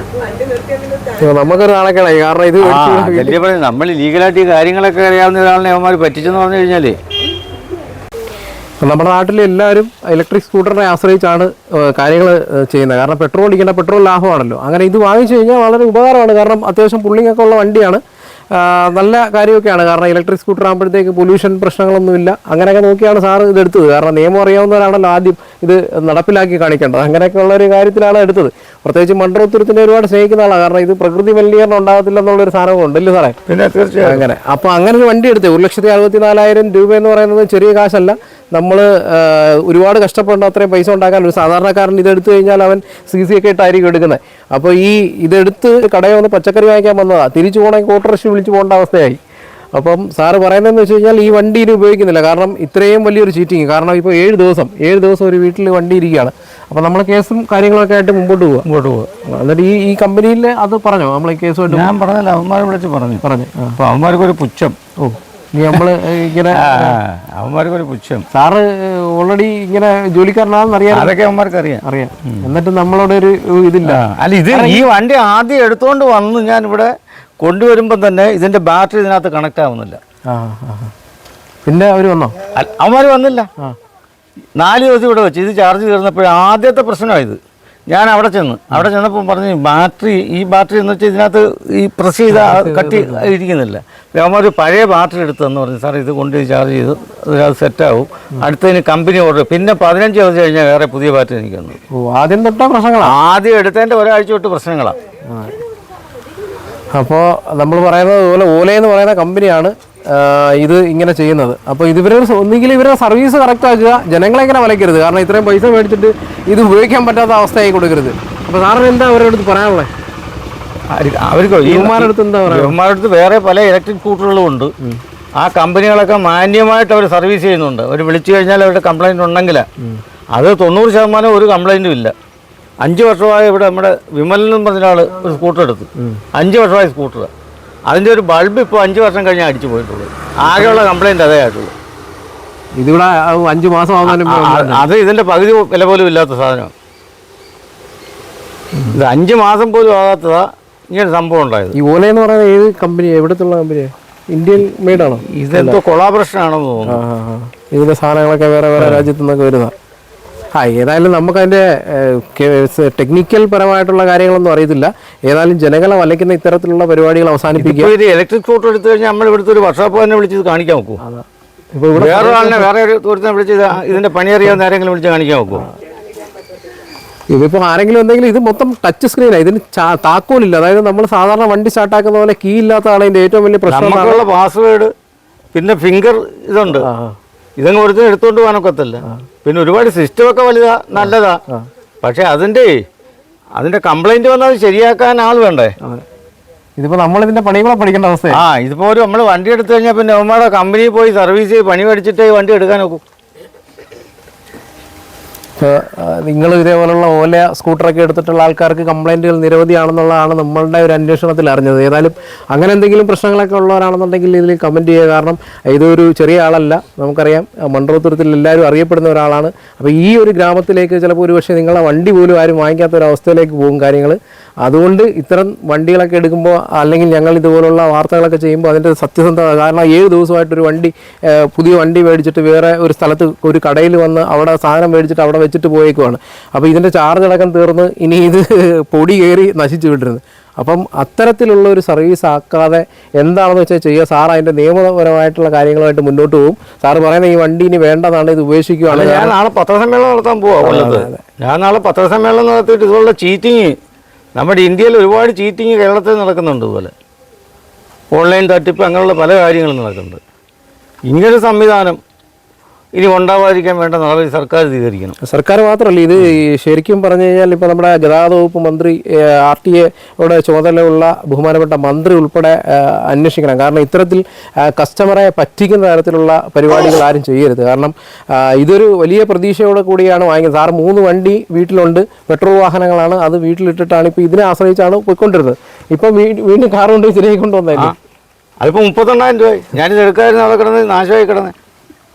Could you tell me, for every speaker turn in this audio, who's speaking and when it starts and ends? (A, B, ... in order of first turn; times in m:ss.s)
0:01.1-0:03.4 A
0:02.6-0:07.0 B
0:08.8-0:33.4 A
0:33.5-0:34.2 B
0:34.0-0:49.2 A
0:49.7-0:58.6 A
0:58.6-0:59.1 B
0:59.3-1:01.9 A
1:01.7-1:03.2 B
1:03.2-1:03.8 A
1:03.8-1:04.8 B
1:05.0-1:07.0 A
1:06.5-1:08.2 B
1:08.3-1:11.1 A
1:10.9-1:12.4 B
1:11.8-1:14.8 A
1:13.9-1:20.0 B
1:20.2-1:20.9 A
1:21.6-1:22.3 A
1:22.5-1:23.5 B
1:24.6-1:41.8 B
1:32.3-1:33.3 A
1:41.9-1:43.1 A
1:43.0-1:45.0 B
1:46.9-1:59.9 A
2:00.9-2:04.7 B
2:01.6-2:02.8 A
2:05.4-2:09.6 B
2:10.3-2:12.1 B
2:12.8-2:17.3 B
2:17.9-2:21.7 B
2:20.5-2:20.8 A
2:22.8-2:24.8 A
2:24.0-2:26.7 B
2:28.9-2:31.8 B
2:31.8-2:35.8 A
2:35.0-2:37.0 B
2:36.8-2:39.7 A
2:38.8-2:39.1 B
2:40.6-2:47.9 A
2:47.6-2:51.0 B
2:51.0-2:52.7 A
2:51.9-2:55.7 B
2:57.3-3:04.2 A
3:03.7-3:04.9 B
3:05.5-3:06.9 B
3:06.7-3:07.2 A
3:07.6-3:11.4 B
3:11.0-3:11.6 A
3:12.0-3:12.7 B
3:13.6-3:15.7 B
3:16.8-3:18.4 A
3:18.3-3:23.0 B
3:25.6-4:09.3 A
4:08.9-4:13.7 B
4:10.6-4:11.2 A
4:14.4-4:16.9 B
4:18.1-4:20.2 B
4:21.1-4:22.0 B
4:23.0-4:25.2 B
4:25.2-4:47.9 A
4:48.6-4:51.5 B